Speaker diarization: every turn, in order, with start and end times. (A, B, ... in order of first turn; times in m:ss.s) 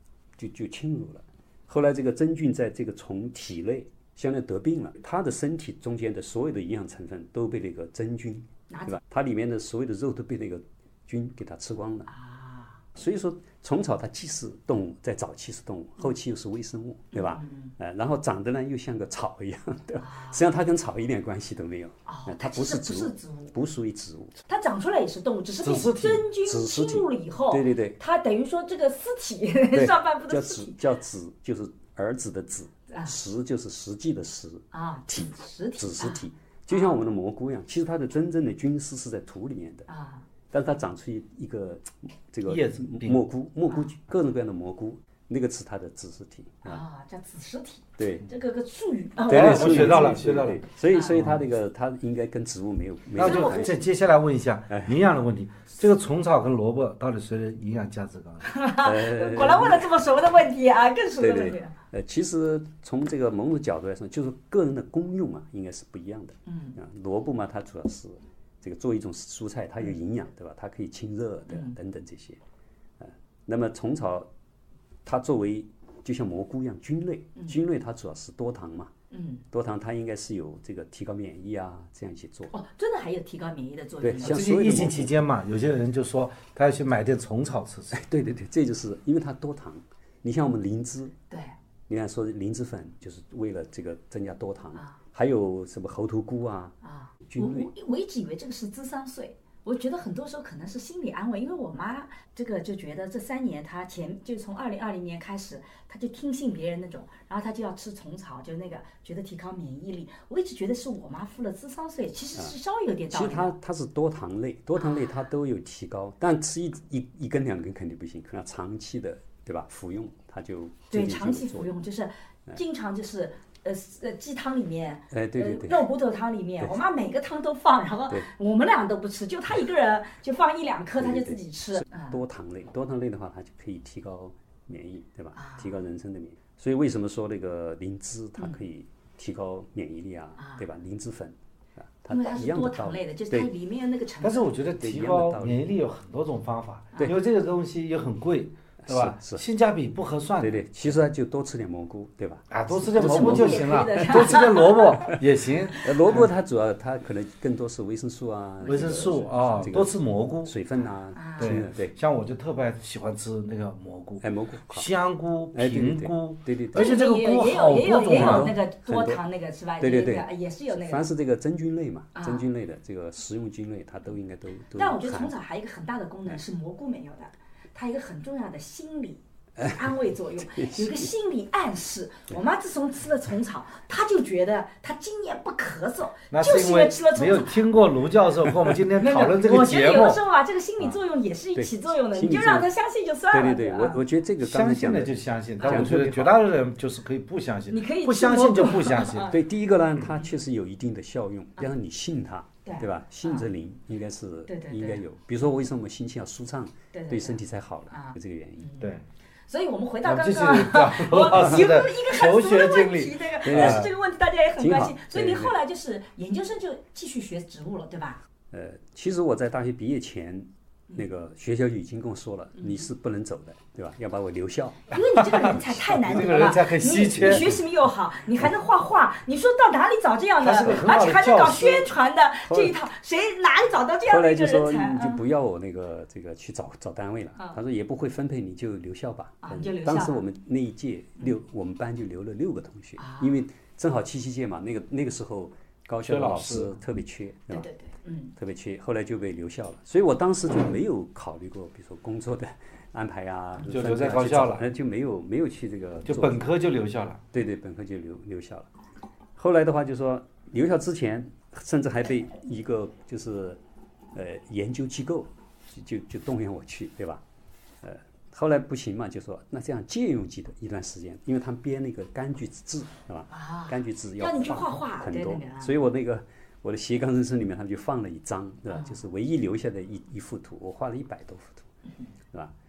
0:00.4-0:12.1 A
0:08.7-0:09.0 B
0:12.1-0:12.8 B
0:13.0-0:24.4 A
0:17.1-0:17.7 B
0:20.0-0:20.4 B
0:22.1-0:23.6 B
0:24.5-0:30.8 B
0:25.6-0:26.2 C
0:26.4-0:28.0 A
0:29.7-0:39.9 A
0:32.9-0:33.2 B
0:34.7-0:37.0 B
0:39.9-0:40.3 B
0:40.5-0:46.8 A
0:42.5-0:43.2 C
0:46.6-0:51.2 B
0:48.0-0:48.3 A
0:49.2-0:51.4 C
0:49.3-0:53.8 A
0:53.2-0:58.5 C
0:53.2-0:53.8 B
0:58.4-1:01.8 B
0:58.8-0:59.9 A
1:01.2-1:12.4 A
1:06.5-1:06.8 B
1:11.5-1:11.8 B
1:13.0-1:14.3 A
1:15.0-1:18.9 A
1:19.1-1:19.4 B
1:19.5-1:22.5 A
1:22.5-1:24.5 B
1:24.0-1:25.1 A
1:24.2-1:28.0 C
1:27.9-1:31.2 A
1:31.3-1:31.6 B
1:31.9-1:37.7 A
1:36.8-1:53.6 B
1:53.1-2:01.7 A
1:54.8-1:55.0 B
2:00.9-2:12.2 B
2:05.1-2:05.9 A
2:11.0-2:23.5 A
2:15.4-2:15.7 B
2:20.4-2:20.6 B
2:22.1-2:24.5 B
2:24.2-2:30.6 C
2:24.8-2:25.7 A
2:28.8-2:29.4 A
2:30.4-2:34.5 A
2:32.5-2:36.3 C
2:32.9-2:35.2 B
2:35.8-2:42.0 A
2:38.6-2:39.7 B
2:38.6-2:40.6 C
2:41.2-2:41.6 B
2:41.4-2:48.5 C
2:44.2-2:44.9 A
2:45.5-2:47.0 A
2:46.7-2:51.1 B
2:48.1-2:49.2 A
2:49.8-2:55.3 A
2:52.2-2:52.5 B
2:54.8-3:07.8 B
3:00.4-3:01.1 A
3:06.3-3:10.2 C
3:09.0-3:14.0 B
3:11.6-3:12.7 A
3:13.3-3:16.4 A
3:14.4-3:19.3 C
3:15.6-3:15.9 B
3:17.7-3:19.4 B
3:19.3-3:28.7 A
3:22.6-3:23.5 B
3:24.5-3:25.0 B
3:26.9-3:28.9 B
3:29.5-3:38.2 B
3:30.0-3:33.9 C
3:33.4-3:33.9 A
3:34.6-3:35.6 A
3:38.5-3:46.1 A
3:42.6-3:42.9 B
3:44.9-3:55.2 B
3:45.3-3:47.6 C
3:47.2-3:47.6 A
3:50.4-3:51.9 C
3:52.5-3:52.8 A
3:54.1-4:07.7 A
3:59.4-4:00.2 B
4:03.0-4:03.4 B
4:06.0-4:06.8 C
4:07.5-4:08.3 B
4:08.4-4:16.5 A
4:13.6-4:14.7 C
4:16.0-4:17.2 C
4:17.3-4:18.7 A
4:19.4-4:23.6 A
4:24.1-4:27.2 A
4:27.8-4:41.7 A
4:33.3-4:35.8 B
4:38.7-4:39.0 B